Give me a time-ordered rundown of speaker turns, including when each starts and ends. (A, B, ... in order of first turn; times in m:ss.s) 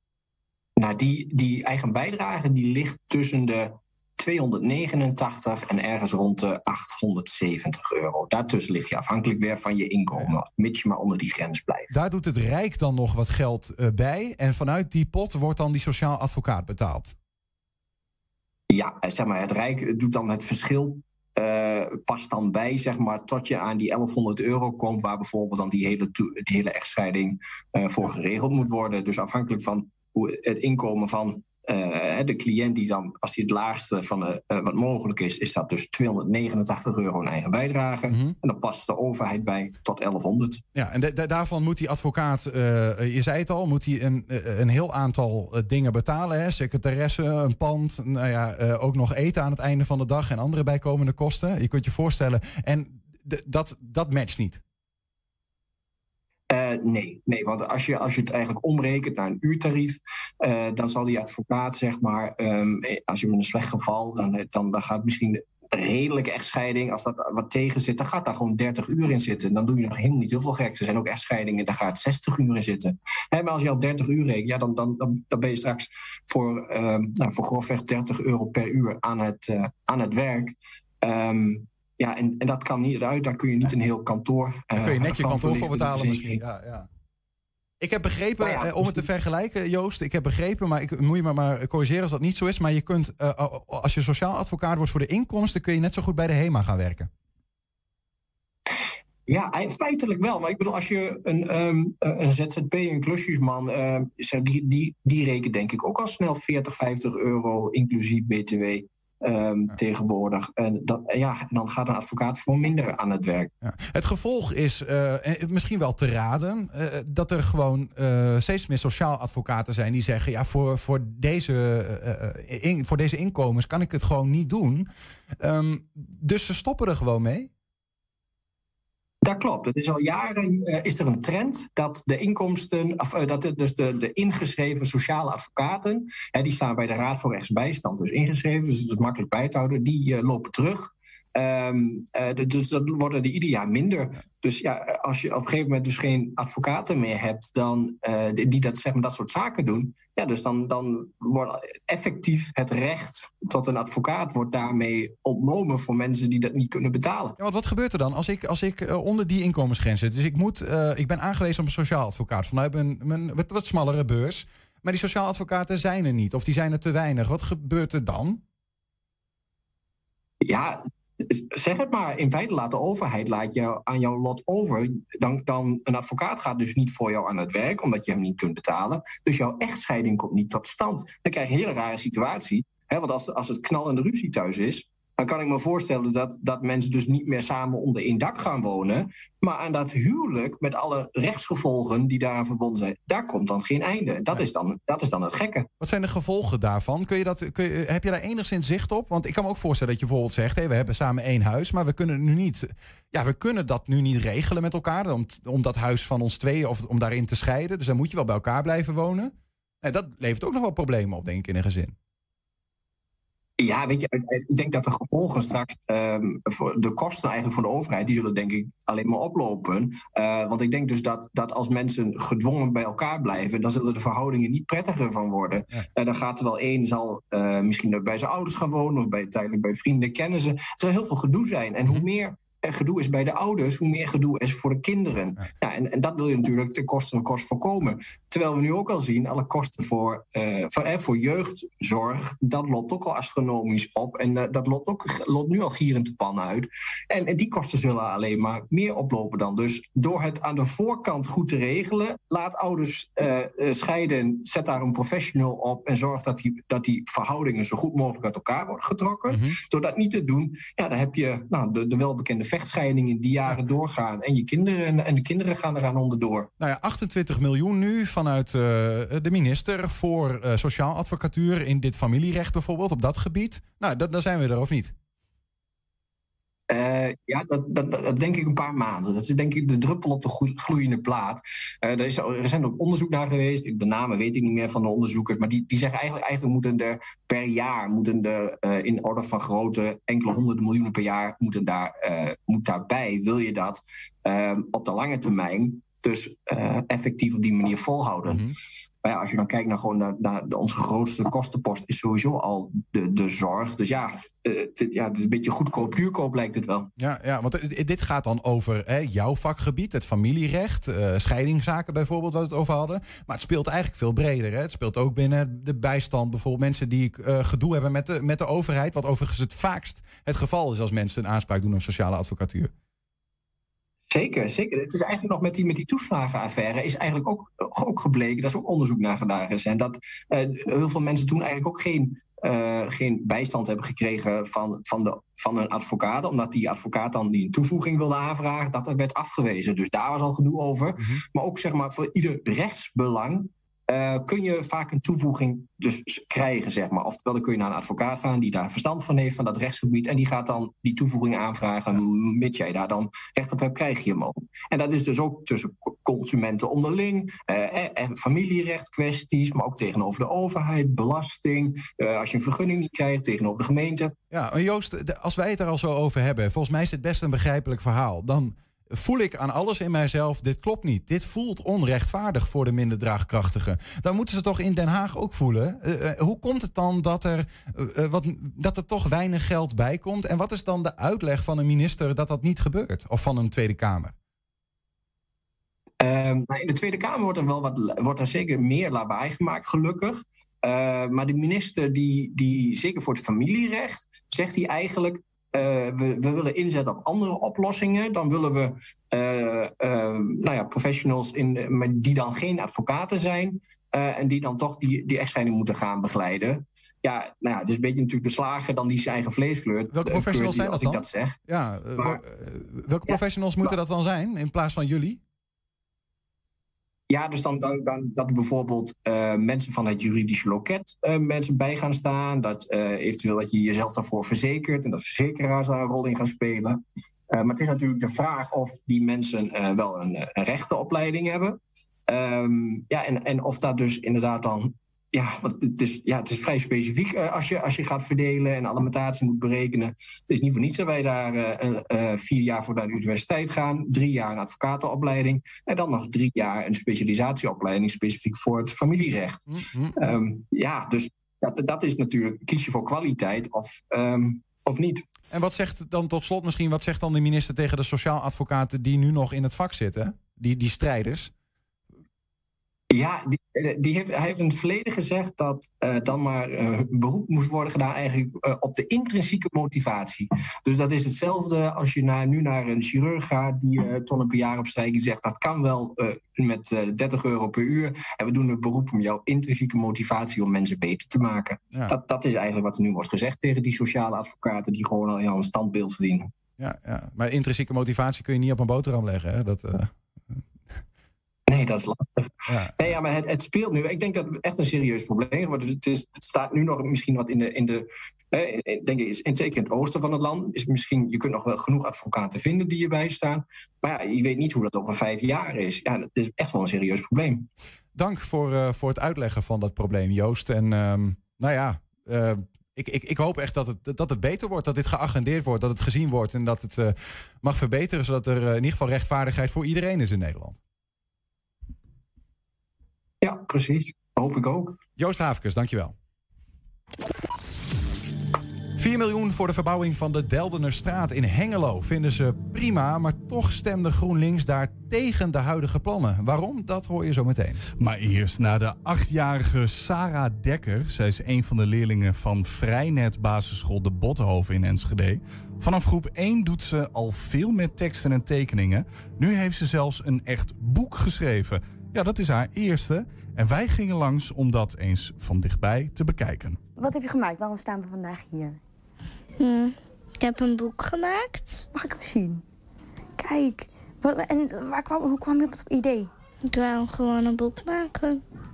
0:00.8-0:12.0 A
0:11.9-0:17.1 B
0:18.7-0:40.6 A
0:38.1-0:38.4 B
0:40.7-0:54.6 B
0:56.5-1:26.4 A
1:24.8-1:26.9 B
1:27.8-1:37.1 B
1:28.4-1:29.1 A
1:39.3-1:53.5 A
1:53.6-2:04.9 B
2:05.4-2:07.5 B
2:09.2-2:37.4 A
2:37.4-2:48.4 B
2:50.4-3:15.7 A
3:15.8-3:31.9 B
3:33.6-4:26.5 A
4:19.3-4:19.6 B
4:26.6-4:34.9 B
4:36.7-4:58.5 A
4:58.3-4:58.5 B
4:59.0-5:06.9 A
5:07.0-5:22.7 B
5:24.1-6:04.1 A
6:04.3-6:24.1 B
6:26.0-6:51.3 A
6:49.9-6:55.2 B
6:53.1-6:53.7 A
6:57.1-7:06.8 A
7:07.3-7:29.4 A
7:29.5-7:29.9 B
7:30.0-7:35.0 A
7:35.3-7:41.3 B
7:42.9-8:06.3 A
8:06.6-8:10.4 B
8:11.5-8:27.5 A
8:12.5-8:12.7 B
8:27.9-8:40.6 B
8:43.2-8:44.8 A
8:45.0-8:45.9 B
8:48.8-8:57.6 B
8:57.8-9:16.6 C
9:16.8-9:18.6 D
9:19.4-9:21.6 E
9:21.7-9:22.4 D
9:23.2-9:26.1 D
9:26.4-9:28.2 E